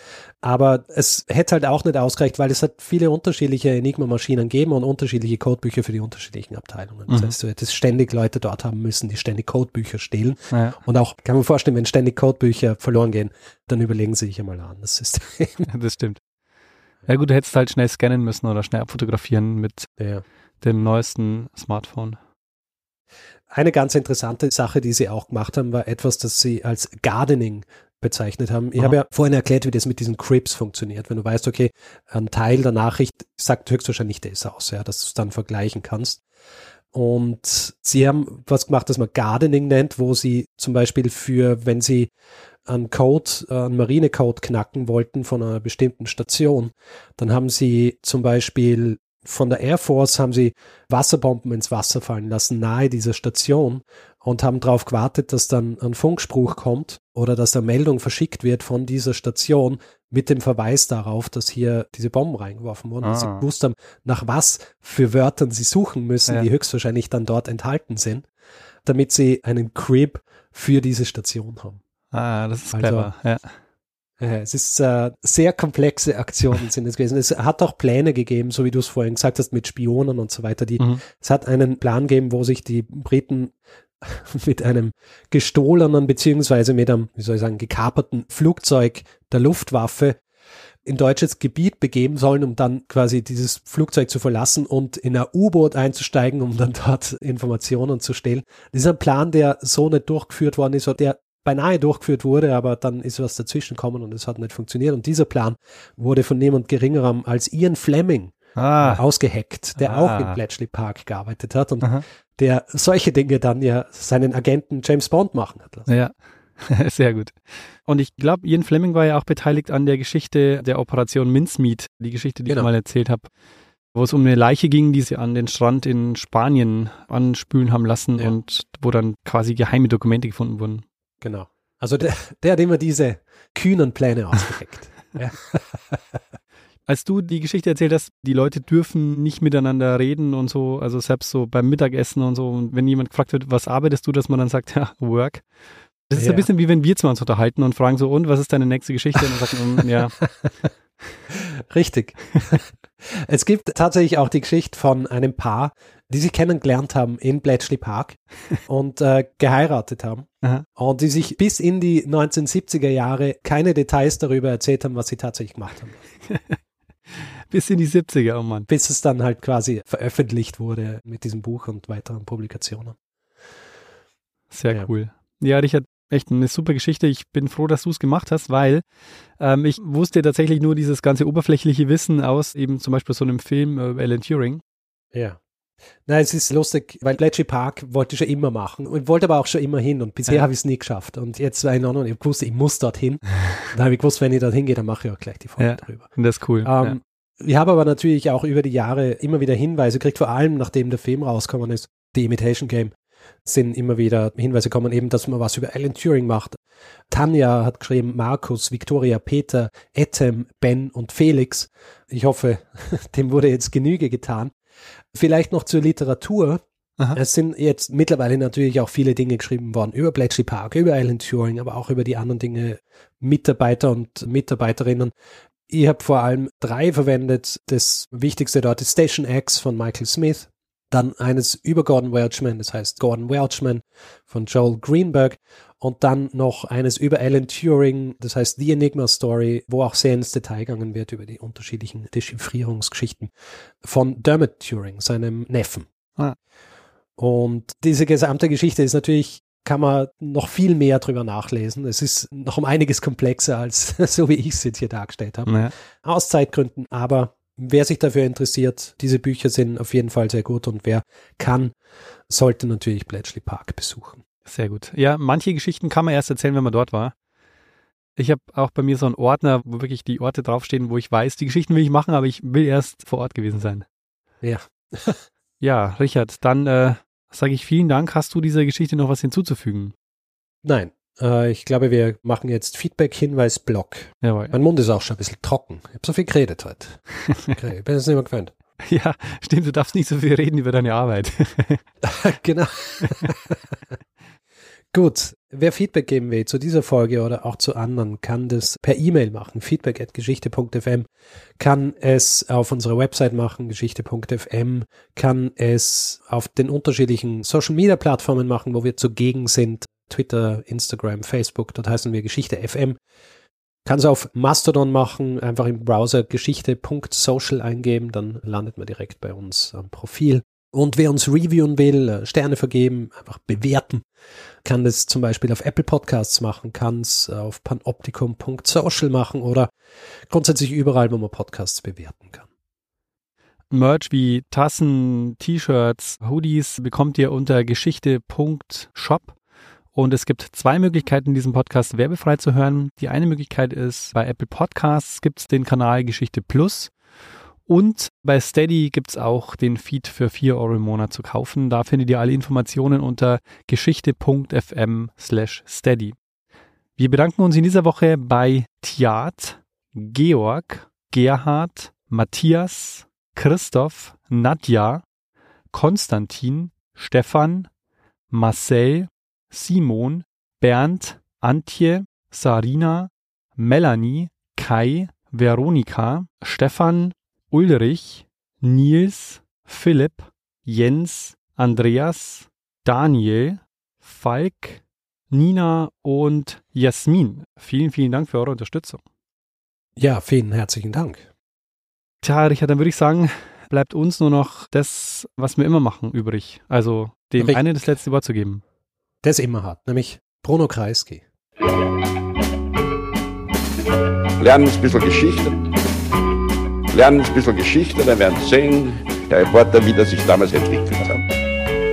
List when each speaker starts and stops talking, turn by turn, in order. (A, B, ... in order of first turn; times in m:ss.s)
0:00.4-0:15.7 A
0:07.1-0:07.3 B
0:10.5-0:10.8 B
0:15.7-0:16.2 B
0:17.1-0:19.9 B
0:20.0-0:20.2 A
0:20.6-0:22.2 B
0:23.5-0:36.2 A
0:36.9-0:42.1 A
0:42.7-1:08.2 A
1:03.0-1:03.4 B
1:08.8-1:11.8 A
1:12.1-1:13.5 B
1:12.7-1:13.1 A
1:14.2-1:30.2 A
1:30.8-1:55.9 A
1:48.6-1:49.0 B
1:49.8-1:50.4 B
1:55.9-2:03.2 B
2:03.9-2:10.8 B
2:11.2-2:16.0 A
2:16.9-2:25.4 B
2:26.1-2:30.2 B
2:26.2-2:26.5 A
2:31.3-2:46.0 A
2:46.2-2:46.6 B
2:47.1-2:48.7 B
2:48.7-2:53.0 A
2:54.5-2:58.8 B
2:59.4-3:04.6 B
3:06.1-3:16.1 A
3:15.6-3:17.0 B
3:16.6-3:22.9 A
3:23.4-3:26.6 A
3:27.1-3:34.5 A
3:35.1-3:36.6 A
3:37.1-3:45.1 A
3:45.7-4:03.3 A
4:03.8-4:05.9 A
4:07.2-4:21.7 A
4:15.4-4:15.7 B
4:22.3-4:24.2 A
4:24.4-4:27.1 B
4:28.2-4:33.8 B
4:34.4-4:35.2 A
4:35.6-4:39.9 B
4:40.6-4:48.5 A
4:44.2-4:44.5 B
4:48.8-4:51.8 B
4:52.0-4:53.6 A
4:54.9-5:01.1 A
5:01.6-5:13.0 A
5:13.8-5:24.0 A
5:24.6-5:29.7 A
5:30.3-5:32.4 A
5:33.7-5:39.4 B
5:39.9-5:46.9 B
5:47.7-5:56.2 B
5:57.0-6:05.0 B
6:05.7-6:07.7 B
6:08.3-6:29.0 B
6:30.0-6:31.2 A
6:32.2-6:38.6 B
6:39.2-6:41.2 A
6:44.4-6:45.6 C
6:46.9-6:51.2 C